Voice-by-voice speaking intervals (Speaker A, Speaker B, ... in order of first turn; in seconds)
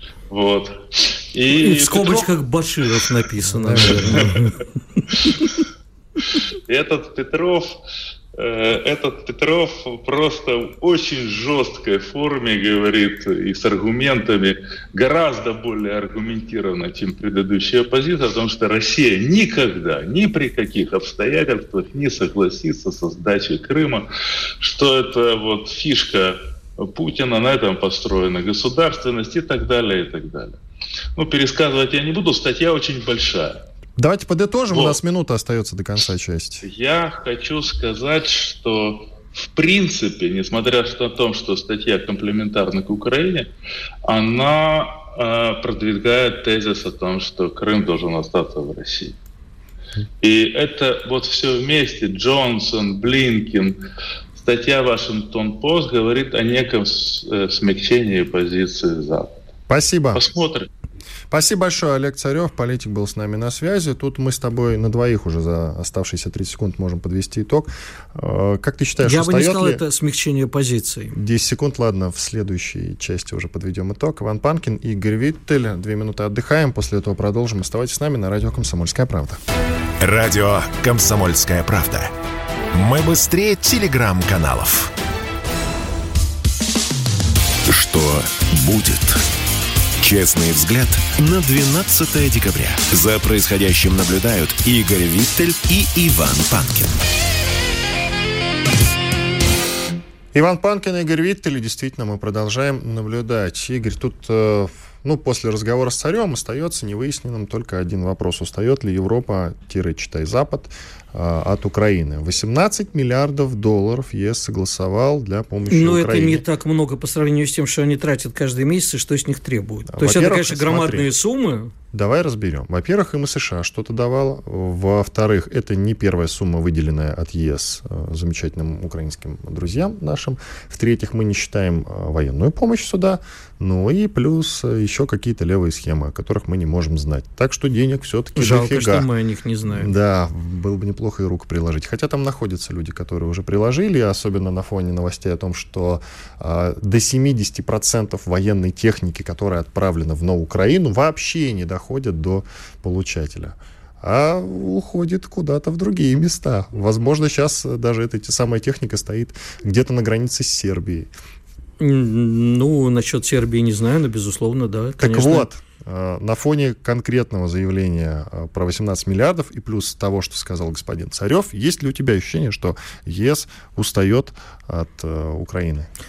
Speaker A: 0.3-2.3, 3.9-4.5, 5.1-5.4, 6.7-7.8, 8.3-24.1, 24.6-30.6, 31.2-33.6, 34.7-35.0, 36.6-43.5, 44.0-49.2, 50.2-53.8, 54.4-59.5, 60.1-60.7
Speaker B: 1.5-5.5, 69.0-71.2, 115.7-121.7, 138.4-139.9, 161.8-165.5
Speaker C: 3.6-4.3, 34.0-36.6, 59.7-60.2, 61.3-69.8, 71.1-79.4, 100.3-116.4, 119.9-121.1, 121.9-139.1, 139.7-161.1, 165.0-175.9
Speaker D: 80.0-82.1, 82.7-84.9, 87.7-89.2, 90.0-97.0